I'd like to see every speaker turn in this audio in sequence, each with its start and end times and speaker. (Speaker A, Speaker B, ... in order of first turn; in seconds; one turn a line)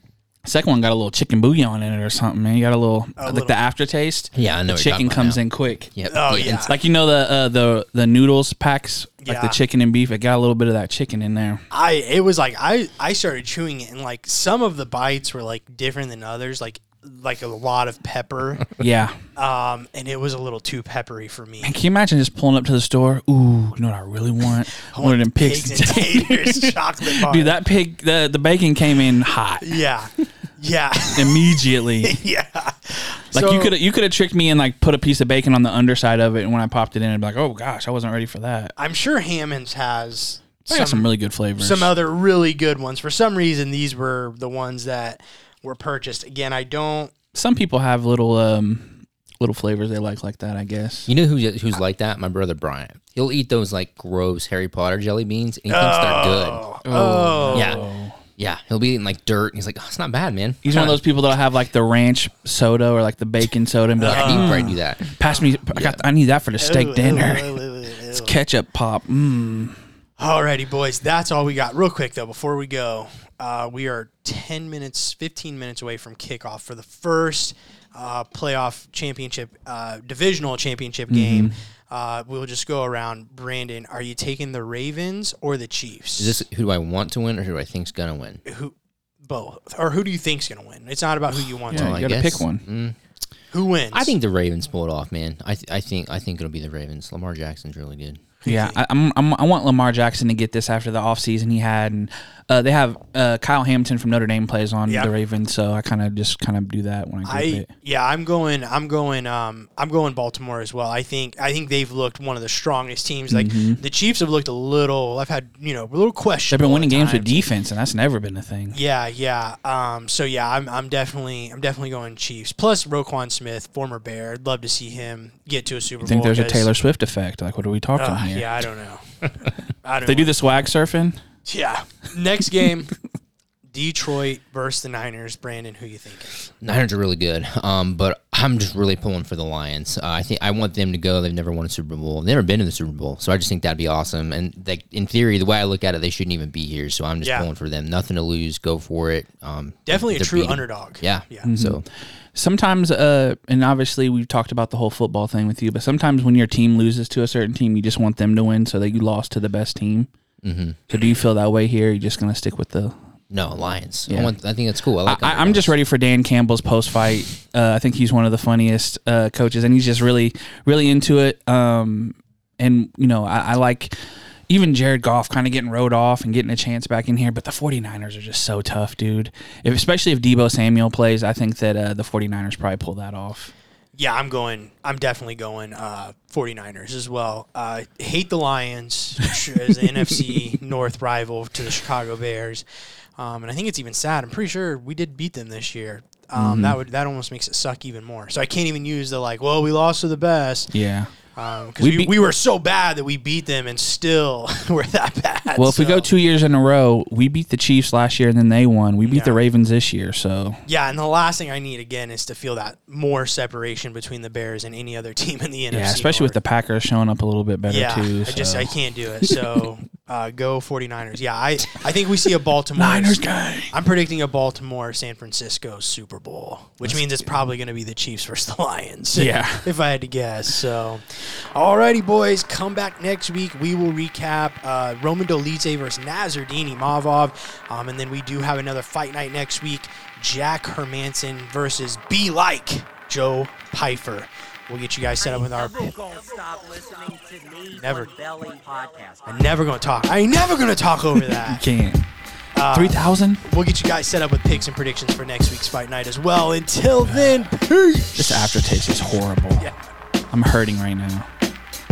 Speaker A: 0.5-5.9
Speaker B: 3.2-3.6
Speaker C: 4.3-5.4
Speaker C: 5.9-6.7
Speaker B: 6.1-6.7
Speaker A: 6.4-11.6
Speaker B: 9.2-9.6
Speaker B: 11.7-18.7
Speaker A: 18.8-19.2
Speaker B: 19.4-21.8
Speaker A: 21.6-29.8
Speaker B: 24.8-27.6
Speaker B: 29.6-33.7
Speaker A: 31.1-32.2
Speaker A: 33.3-38.7
Speaker B: 38.8-47.1
Speaker A: 40.7-41.9
Speaker A: 47.3-51.1
Speaker C: 51.1-61.0
Speaker B: 55.7-57.9
Speaker A: 57.5-58.2
Speaker A: 60.6-67.5
Speaker B: 64.0-64.7
Speaker C: 64.0-65.1
Speaker C: 65.7-66.0
Speaker B: 66.6-68.3
Speaker A: 68.1-69.8
Speaker B: 70.2-86.4
Speaker A: 81.1-81.5
Speaker C: 86.2-88.4
Speaker B: 88.5-92.0
Speaker A: 91.7-92.6
Speaker C: 91.7-93.0
Speaker B: 93.5-94.2
Speaker C: 93.9-98.2
Speaker B: 98.4-98.8
Speaker A: 98.5-107.7
Speaker B: 107.3-117.5
Speaker A: 113.3-113.8
Speaker A: 116.5-118.8
Speaker B: 118.7-126.7
Speaker A: 126.0-128.5
Speaker B: 128.0-130.4
Speaker A: 130.1-131.2
Speaker B: 131.5-132.9
Speaker B: 133.7-136.5
Speaker C: 136.6-151.8
Speaker B: 147.2-147.5
Speaker B: 149.9-151.5
Speaker A: 151.4-160.1
Speaker C: 160.4-160.8
Speaker A: 160.9-162.9
Speaker C: 163.3-165.7
Speaker A: 164.1-164.3
Speaker A: 165.0-174.0
Speaker A: 174.5-183.5
Speaker B: 184.0-192.7
Speaker B: 193.2-200.7
Speaker A: 196.4-196.8
Speaker A: 200.7-201.1
Speaker B: 201.3-206.1
Speaker A: 201.8-202.1
Speaker A: 205.6-210.6
Speaker B: 209.0-209.4
Speaker B: 210.7-216.4
Speaker A: 215.7-218.7
Speaker B: 217.7-245.9
Speaker A: 219.2-219.5
Speaker A: 222.8-223.7
Speaker A: 229.2-229.7
Speaker D: 245.2-249.6
Speaker B: 247.8-248.1
Speaker B: 249.3-251.6
Speaker A: 251.3-252.1
Speaker B: 252.5-258.7
Speaker A: 252.7-253.4
Speaker A: 258.1-259.7
Speaker A: 260.3-261.3